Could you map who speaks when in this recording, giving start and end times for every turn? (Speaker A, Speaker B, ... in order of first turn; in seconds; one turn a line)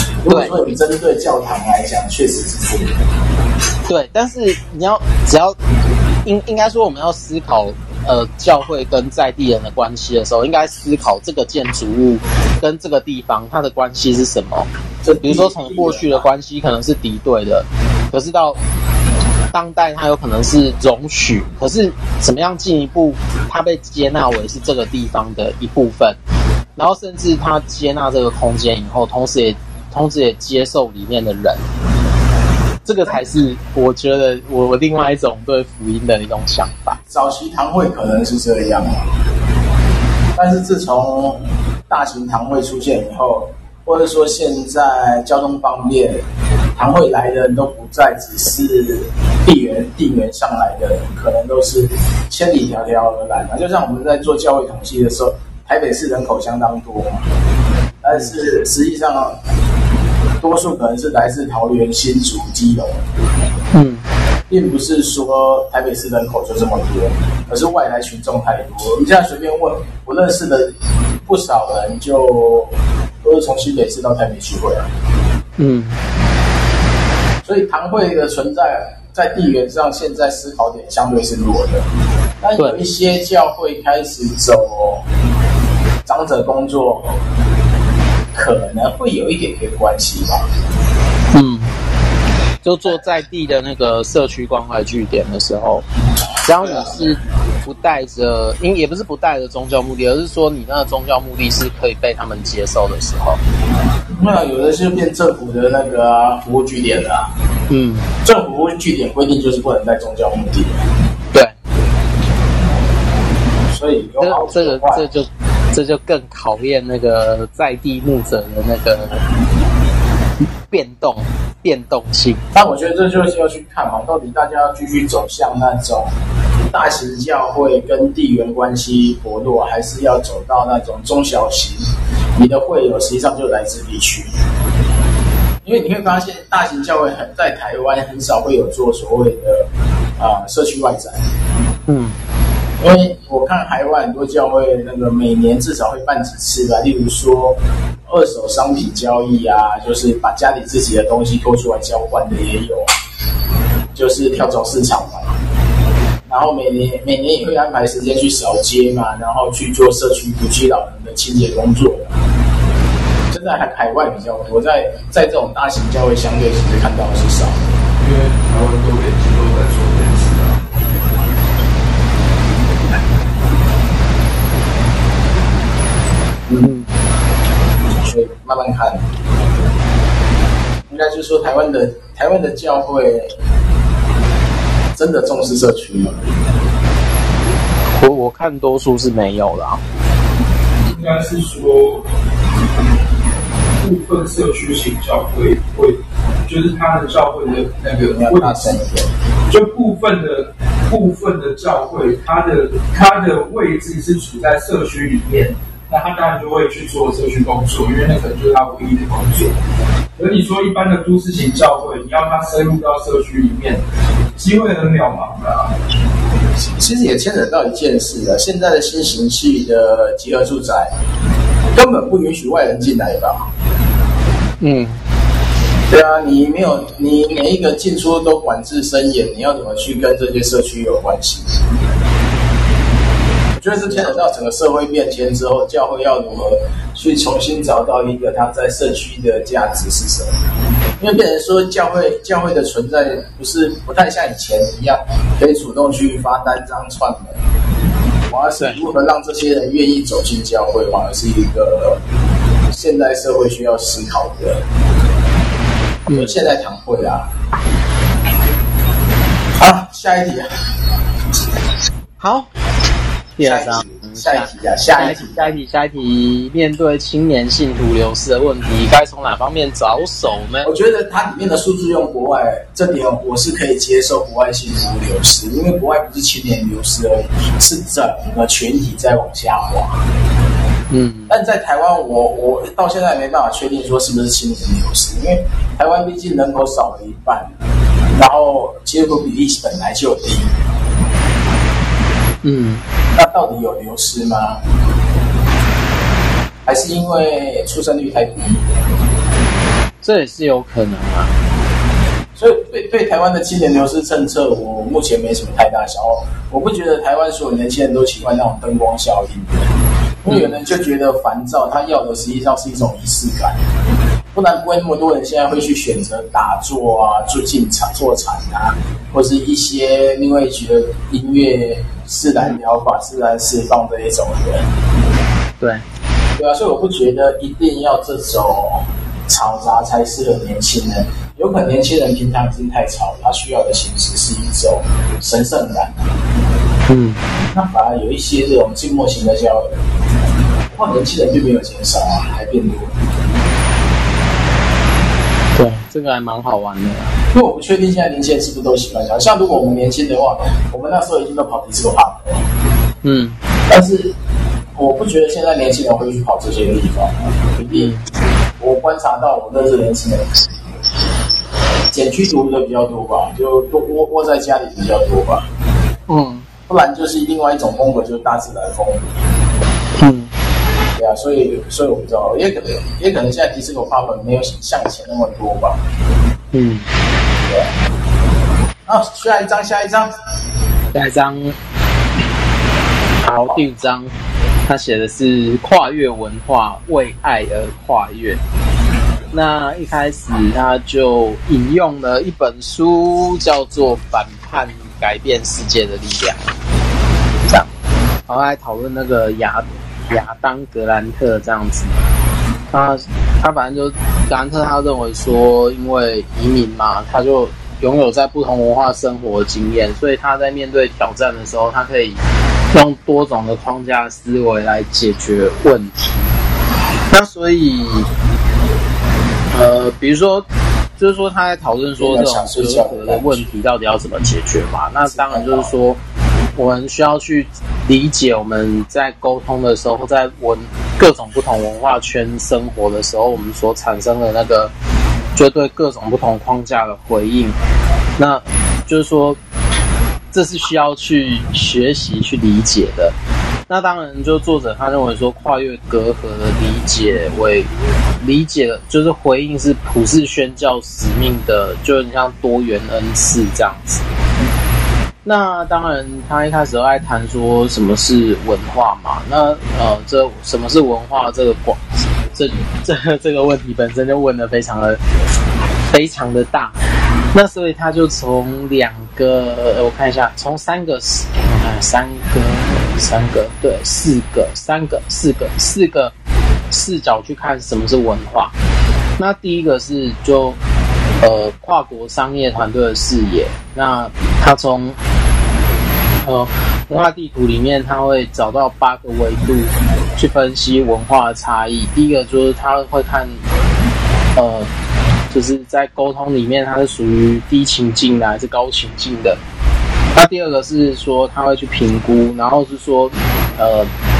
Speaker A: 0.2-3.0
Speaker B: 0.3-0.6
Speaker B: 3.9-5.6
Speaker B: 6.2-14.7
Speaker A: 15.0-16.2
Speaker B: 15.2-18.6
Speaker B: 19.5-26.2
Speaker B: 26.8-31.6
Speaker B: 32.8-37.0
Speaker A: 37.1-39.2
Speaker A: 40.4-46.2
Speaker A: 46.8-57.3
Speaker A: 58.0-59.4
Speaker A: 60.4-63.0
Speaker B: 63.7-64.0
Speaker A: 64.5-74.9
Speaker B: 75.6-76.0
Speaker A: 77.4-81.9
Speaker A: 82.4-85.0
Speaker A: 86.0-87.2
Speaker A: 88.3-90.5
Speaker B: 91.3-91.7
Speaker B: 92.6-95.8
Speaker B: 96.4-103.4
Speaker A: 96.6-97.0
Speaker A: 104.1-107.3
Speaker B: 107.7-108.1
Speaker A: 108.2-110.8
Speaker A: 113.7-115.0
Speaker B: 114.2-119.2
Speaker B: 120.7-122.5
Speaker A: 122.5-126.1
Speaker A: 126.7-134.4
Speaker A: 135.6-141.3
Speaker B: 141.9-142.2
Speaker A: 142.8-152.9
Speaker A: 153.9-155.4
Speaker A: 156.3-162.2
Speaker A: 163.3-167.6
Speaker C: 168.0-170.6
Speaker A: 178.0-179.1
Speaker A: 180.9-183.4
Speaker A: 184.9-186.3
Speaker B: 187.9-189.8
Speaker C: 190.8-192.1
Speaker C: 193.8-198.7
Speaker A: 198.1-199.1
Speaker C: 199.5-209.6
Speaker C: 210.2-213.8
Speaker C: 214.3-215.8
Speaker A: 216.7-220.9
Speaker A: 221.7-223.5
Speaker B: 224.6-225.0
Speaker A: 225.9-231.6
Speaker A: 233.6-240.4
Speaker B: 233.9-234.1
Speaker A: 241.0-247.4
Speaker A: 248.3-252.0
Speaker A: 252.7-254.6
Speaker B: 256.1-256.4
Speaker A: 256.1-257.3
Speaker A: 259.6-260.6
Speaker B: 262.2-262.5
Speaker B: 263.4-270.7
Speaker A: 263.4-265.4
Speaker A: 270.6-280.0
Speaker B: 280.9-281.3
Speaker A: 281.3-287.5
Speaker A: 288.1-290.6
Speaker B: 292.4-292.8
Speaker A: 293.1-294.6
Speaker A: 296.6-298.6
Speaker B: 300.0-301.4
Speaker A: 302.4-309.7
Speaker A: 310.2-313.6
Speaker B: 310.2-310.5
Speaker A: 314.3-324.7
Speaker A: 326.4-336.1
Speaker B: 336.9-337.2
Speaker A: 337.5-339.8
Speaker A: 340.7-343.0
Speaker B: 345.6-347.1
Speaker A: 347.3-352.4
Speaker B: 353.0-353.4
Speaker A: 353.7-354.1
Speaker A: 354.8-357.9
Speaker B: 357.6-358.0
Speaker A: 358.6-360.3
Speaker A: 361.9-365.5
Speaker B: 366.1-366.5
Speaker A: 366.7-369.1
Speaker B: 370.0-370.3
Speaker A: 370.9-375.8
Speaker B: 376.5-376.9
Speaker A: 378.9-380.1
Speaker B: 380.9-381.6
Speaker B: 383.2-384.1
Speaker B: 384.6-388.4
Speaker B: 389.3-396.6
Speaker B: 398.3-401.9
Speaker B: 402.7-412.2
Speaker B: 412.7-416.3
Speaker B: 417.1-418.1
Speaker B: 419.5-420.4
Speaker B: 421.0-426.0
Speaker A: 422.0-423.4
Speaker A: 425.1-425.7
Speaker B: 426.6-434.7
Speaker B: 435.4-437.6
Speaker B: 438.2-439.4
Speaker B: 440.3-443.1
Speaker B: 443.7-447.7
Speaker B: 448.2-454.0
Speaker B: 455.2-461.8
Speaker B: 462.3-465.0
Speaker B: 465.9-466.8
Speaker B: 467.3-476.1
Speaker B: 476.7-478.5
Speaker B: 479.2-480.6
Speaker B: 481.2-485.0
Speaker B: 486.2-493.4
Speaker B: 494.4-494.7
Speaker B: 495.3-499.4
Speaker B: 500.1-503.9